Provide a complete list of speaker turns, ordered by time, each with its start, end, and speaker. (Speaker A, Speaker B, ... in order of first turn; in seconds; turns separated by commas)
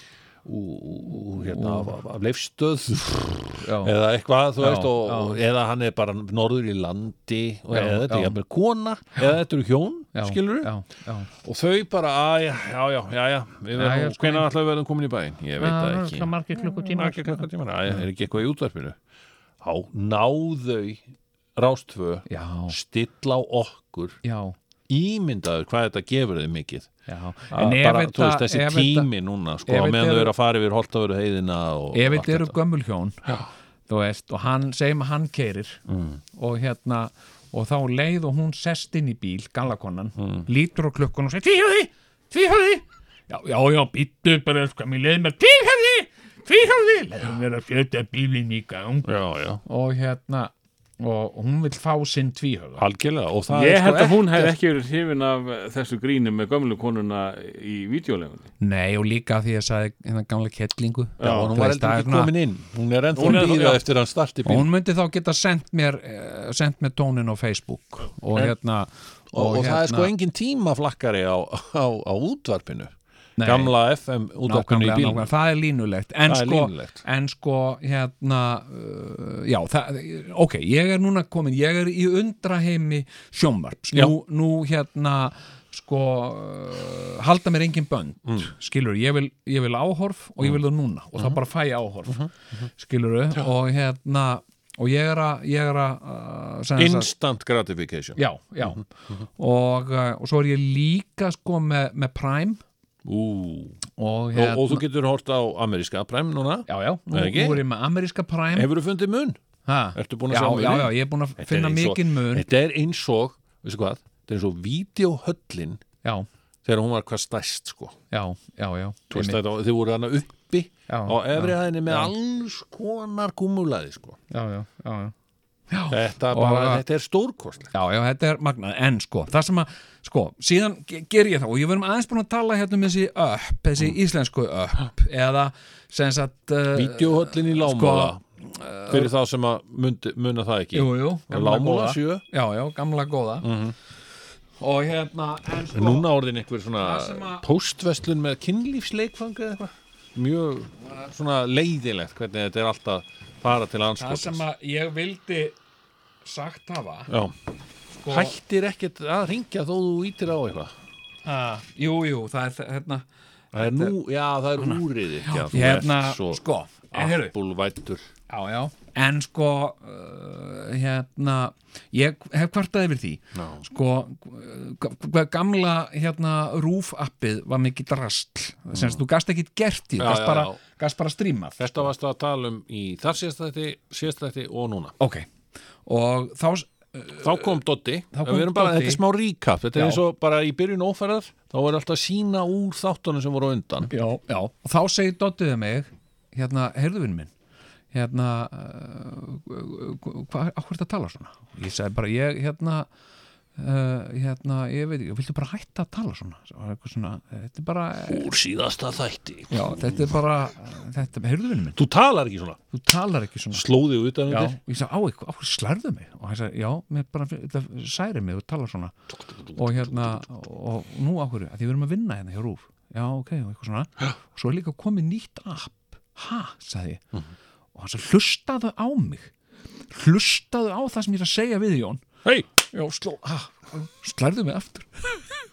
Speaker A: 0.4-10.7, Speaker B: 1.4-1.9, Speaker B: 3.6-3.9, Speaker B: 4.6-5.4, Speaker B: 7.7-8.4, Speaker B: 10.1-11.3, Speaker A: 11.4-19.0, Speaker B: 13.8-14.5, Speaker B: 15.6-18.0, Speaker A: 19.6-21.0, Speaker A: 21.6-24.2, Speaker B: 22.3-22.8, Speaker B: 24.2-24.6, Speaker A: 24.9-26.9, Speaker B: 27.1-29.1, Speaker A: 27.5-32.5, Speaker B: 29.6-30.3, Speaker B: 31.9-33.2, Speaker B: 33.9-35.8, Speaker A: 35.9-36.2, Speaker B: 36.3-49.1, Speaker A: 40.2-40.5, Speaker A: 49.0-49.6, Speaker B: 49.6-52.8, Speaker A: 52.8-54.5, Speaker C: 53.5-58.5, Speaker B: 58.6-62.3, Speaker A: 61.2-64.7, Speaker C: 63.2-63.7, Speaker B: 63.2-63.8, Speaker B: 64.5-70.1, Speaker A: 69.3-75.3, Speaker B: 73.4-73.7, Speaker B: 74.4-92.3, Speaker A: 76.3-77.0, Speaker A: 88.3-88.5, Speaker A: 92.1-92.7, Speaker B: 92.8-97.1, Speaker A: 96.8-98.8, Speaker B: 98.2-102.6, Speaker A: 103.0-103.8, Speaker B: 104.0-104.8, Speaker A: 104.3-107.6, Speaker B: 106.7-108.7, Speaker A: 108.5-109.4, Speaker B: 109.7-112.5, Speaker A: 110.0-115.8, Speaker A: 116.7-118.0, Speaker B: 118.1-119.4, Speaker A: 119.1-124.2, Speaker B: 120.9-122.1, Speaker B: 124.3-125.1, Speaker B: 125.7-126.8, Speaker A: 125.9-127.7, Speaker B: 127.7-139.1, Speaker A: 136.7-138.2, Speaker A: 138.9-142.2, Speaker B: 140.7-143.5, Speaker A: 143.4-143.8, Speaker B: 144.6-146.1, Speaker A: 145.7-154.4, Speaker B: 146.8-147.4, Speaker B: 154.0-155.6, Speaker B: 156.2-157.1, Speaker A: 157.1-157.3, Speaker B: 158.0-158.3, Speaker A: 158.1-160.7, Speaker B: 161.2-164.0, Speaker A: 163.5-168.1, Speaker B: 164.6-167.3, Speaker B: 168.3-181.9, Speaker A: 173.3-173.6, Speaker A: 178.7-179.0, Speaker A: 180.0-180.6, Speaker A: 181.6-185.0, Speaker B: 185.0-185.3, Speaker B: 185.9-187.6, Speaker A: 187.2-193.9, Speaker B: 188.1-189.0, Speaker B: 189.7-190.0, Speaker B: 193.9-197.3, Speaker B: 197.9-202.9, Speaker B: 203.6-208.3, Speaker A: 208.1-210.1, Speaker B: 209.5-211.8, Speaker A: 211.8-212.6, Speaker B: 212.7-213.7, Speaker A: 213.5-214.6, Speaker B: 214.3-218.9, Speaker A: 219.3-220.2, Speaker B: 219.6-227.0, Speaker B: 227.8-229.3, Speaker B: 229.9-232.0, Speaker B: 232.7-235.3